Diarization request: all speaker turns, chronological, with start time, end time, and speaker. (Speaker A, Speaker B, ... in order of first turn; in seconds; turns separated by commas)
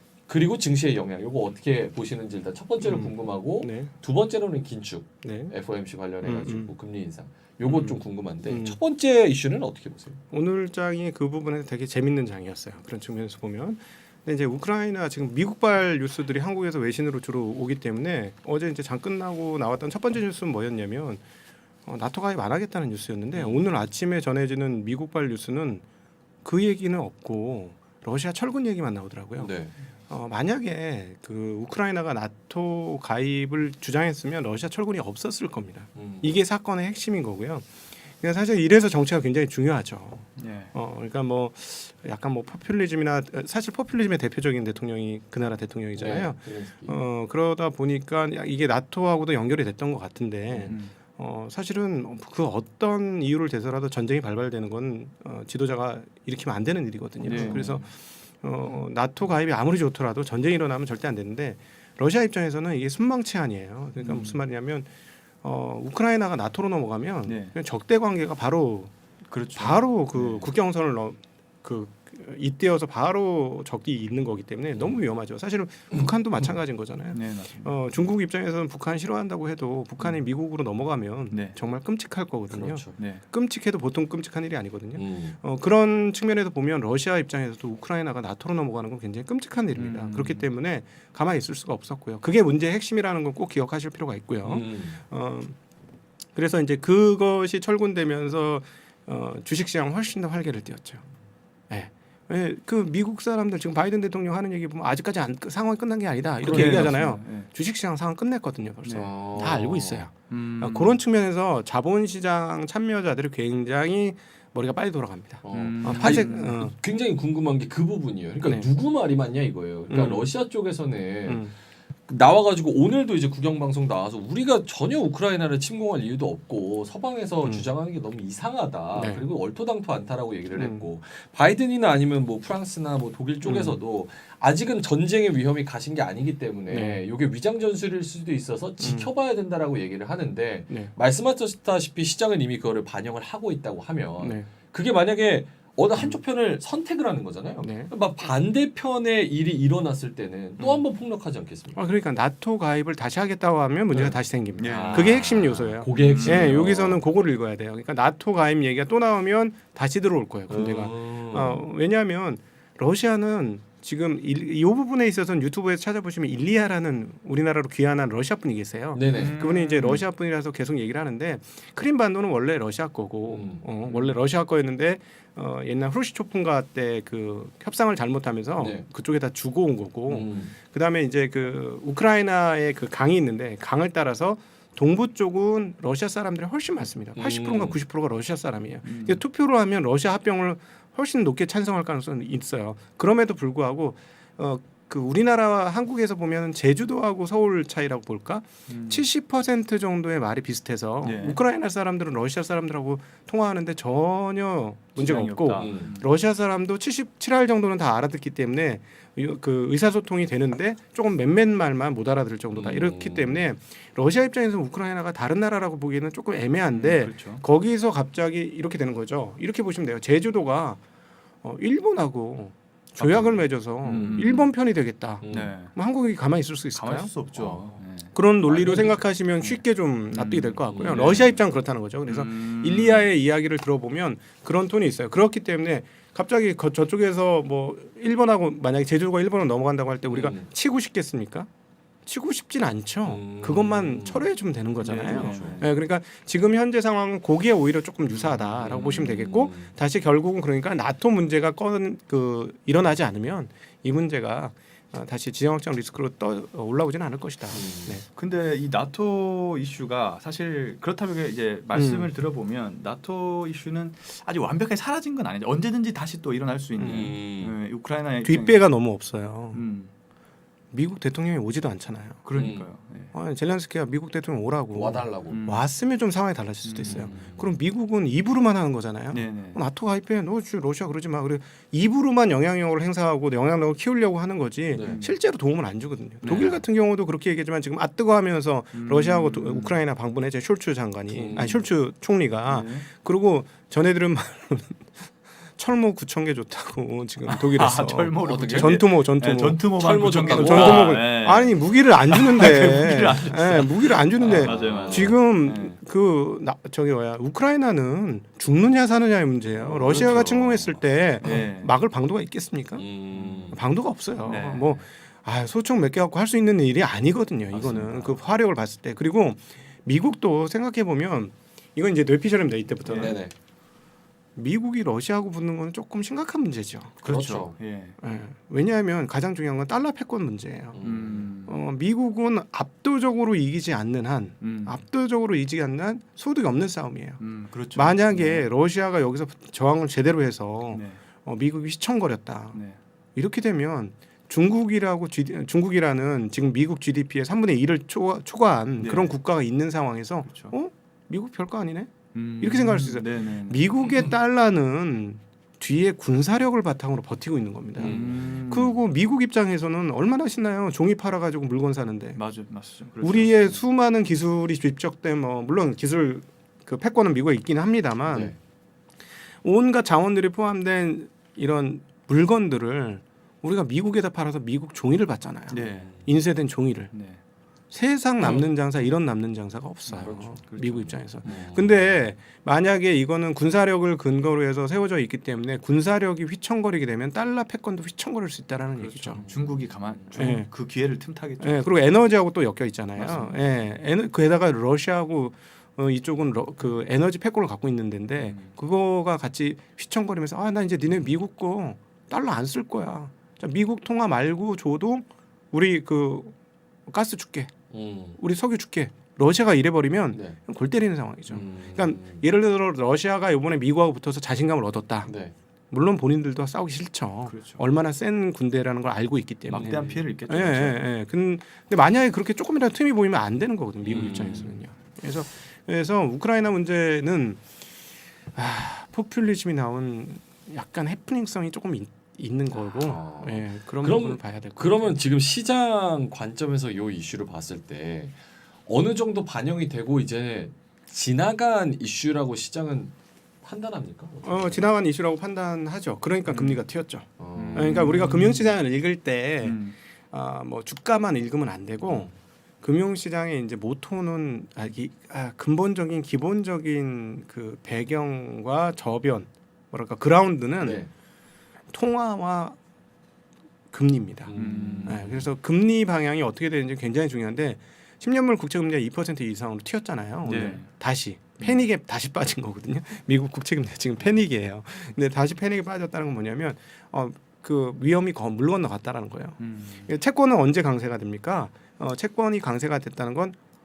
Speaker A: 0.3-10.2, Speaker B: 2.8-3.9, Speaker B: 5.2-5.5, Speaker B: 6.2-6.7, Speaker B: 7.7-8.8, Speaker B: 10.3-21.2, Speaker B: 21.9-25.8, Speaker A: 23.3-23.7, Speaker B: 26.4-29.5, Speaker A: 29.4-29.8, Speaker B: 30.1-64.9, Speaker A: 36.0-36.4, Speaker C: 40.4-40.7, Speaker A: 46.0-47.0, Speaker C: 50.7-50.9, Speaker A: 57.2-57.9, Speaker C: 57.2-57.7, Speaker C: 64.0-64.4, Speaker B: 65.4-68.9, Speaker C: 67.2-67.5, Speaker C: 69.3-70.5, Speaker B: 69.5-95.6, Speaker C: 77.1-77.7, Speaker C: 81.3-81.6, Speaker A: 82.5-83.0, Speaker C: 83.0-83.2, Speaker A: 85.0-85.4, Speaker C: 89.8-90.4, Speaker A: 94.4-95.0, Speaker B: 96.3-101.0, Speaker B: 101.7-116.8, Speaker C: 106.4-107.5, Speaker A: 106.5-106.9, Speaker C: 108.8-109.1, Speaker A: 109.0-110.1, Speaker C: 110.3-111.0, Speaker A: 115.4-121.5, Speaker C: 115.5-116.5, Speaker B: 118.4-118.7, Speaker B: 119.9-120.3, Speaker B: 121.3-121.5, Speaker A: 122.1-151.8, Speaker B: 127.4-127.7, Speaker B: 128.9-129.2, Speaker B: 130.6-130.9, Speaker B: 133.4-133.8, Speaker B: 136.7-137.0, Speaker B: 138.8-139.1, Speaker B: 144.2-144.5, Speaker B: 147.6-147.9, Speaker B: 151.7-220.8, Speaker A: 153.9-157.0, Speaker C: 154.6-155.2, Speaker C: 155.9-156.6, Speaker A: 160.5-161.7, Speaker A: 168.9-169.4, Speaker C: 169.1-170.0, Speaker A: 173.3-173.7, Speaker C: 173.8-174.1, Speaker A: 178.6-178.8, Speaker A: 180.1-180.6, Speaker A: 187.2-187.8, Speaker C: 188.8-189.2, Speaker C: 198.7-199.1, Speaker C: 201.0-201.4, Speaker C: 204.9-206.1, Speaker A: 205.6-205.9, Speaker A: 212.5-213.5, Speaker C: 216.7-217.4, Speaker B: 221.4-227.3, Speaker C: 223.0-224.3, Speaker A: 223.8-224.5, Speaker A: 225.2-225.5, Speaker C: 225.3-225.7, Speaker C: 226.7-229.6, Speaker A: 227.3-227.6, Speaker B: 228.1-241.5, Speaker A: 228.7-228.9, Speaker C: 230.1-231.3, Speaker A: 230.7-231.3, Speaker C: 232.1-233.1, Speaker A: 240.1-240.5, Speaker B: 242.1-258.1, Speaker A: 243.0-244.3, Speaker C: 244.8-245.7, Speaker A: 244.8-245.6, Speaker A: 248.1-249.7, Speaker A: 257.5-258.0, Speaker C: 258.1-268.7, Speaker B: 261.7-262.1, Speaker B: 266.8-267.1, Speaker A: 266.8-267.6, Speaker B: 268.2-269.6, Speaker C: 269.5-269.9, Speaker B: 270.7-272.2, Speaker C: 272.2-273.1, Speaker A: 272.4-272.7, Speaker B: 273.1-312.9, Speaker A: 274.7-275.5, Speaker C: 275.3-275.7, Speaker C: 276.6-277.2, Speaker A: 276.8-277.5, Speaker C: 279.1-279.6, Speaker A: 284.7-285.0, Speaker C: 284.8-285.2, Speaker C: 286.2-286.6, Speaker A: 286.2-286.6, Speaker C: 288.7-289.8, Speaker A: 291.1-291.6, Speaker C: 292.5-292.9, Speaker C: 297.2-305.8, Speaker A: 298.2-298.8, Speaker A: 299.8-301.0, Speaker A: 304.2-305.2, Speaker A: 309.6-310.7, Speaker C: 309.8-310.3, Speaker C: 311.2-311.7, Speaker A: 312.8-313.6, Speaker C: 313.1-313.5, Speaker B: 313.5-323.2, Speaker C: 314.2-314.8, Speaker A: 317.5-318.2, Speaker C: 322.9-323.2, Speaker A: 322.9-323.3, Speaker B: 324.4-327.0, Speaker C: 327.0-328.0, Speaker A: 327.0-327.6, Speaker B: 328.0-330.9, Speaker A: 330.7-331.3, Speaker C: 330.8-331.6, Speaker B: 331.4-342.6, Speaker C: 334.4-334.8, Speaker C: 337.2-338.5, Speaker C: 340.7-341.0, Speaker C: 342.5-342.8, Speaker B: 343.1-362.2, Speaker C: 348.8-349.1, Speaker C: 350.2-350.6, Speaker C: 352.1-354.1, Speaker C: 357.8-358.8, Speaker A: 357.8-358.3, Speaker C: 362.1-363.4, Speaker B: 363.0-368.3, Speaker A: 368.1-368.4, Speaker B: 369.4-376.9, Speaker C: 375.5-375.9, Speaker A: 375.6-376.1, Speaker C: 376.9-377.2, Speaker B: 377.7-389.2, Speaker A: 378.2-378.5, Speaker A: 379.9-380.4, Speaker C: 379.9-381.4, Speaker A: 381.2-382.0, Speaker C: 388.8-391.9, Speaker A: 389.2-390.1, Speaker B: 390.1-390.5, Speaker B: 391.4-406.4, Speaker A: 393.0-393.4, Speaker C: 393.1-393.3, Speaker C: 398.2-398.5, Speaker B: 406.9-407.5, Speaker A: 407.7-408.2, Speaker B: 408.2-415.1, Speaker A: 410.1-410.4, Speaker A: 411.3-412.2, Speaker A: 415.1-415.3, Speaker B: 415.7-427.4, Speaker C: 417.2-417.7, Speaker C: 419.5-420.8, Speaker A: 419.6-420.1, Speaker A: 423.9-424.6, Speaker C: 423.9-424.3, Speaker B: 428.3-435.0, Speaker A: 432.6-438.2, Speaker A: 438.7-444.6, Speaker B: 444.2-460.9, Speaker A: 446.2-446.6, Speaker A: 447.2-448.3, Speaker C: 447.4-448.5, Speaker C: 449.4-449.8, Speaker A: 460.6-460.9, Speaker B: 461.7-462.6, Speaker B: 463.7-483.4, Speaker A: 464.3-465.3, Speaker C: 464.4-465.1, Speaker C: 470.2-470.7, Speaker C: 479.4-479.9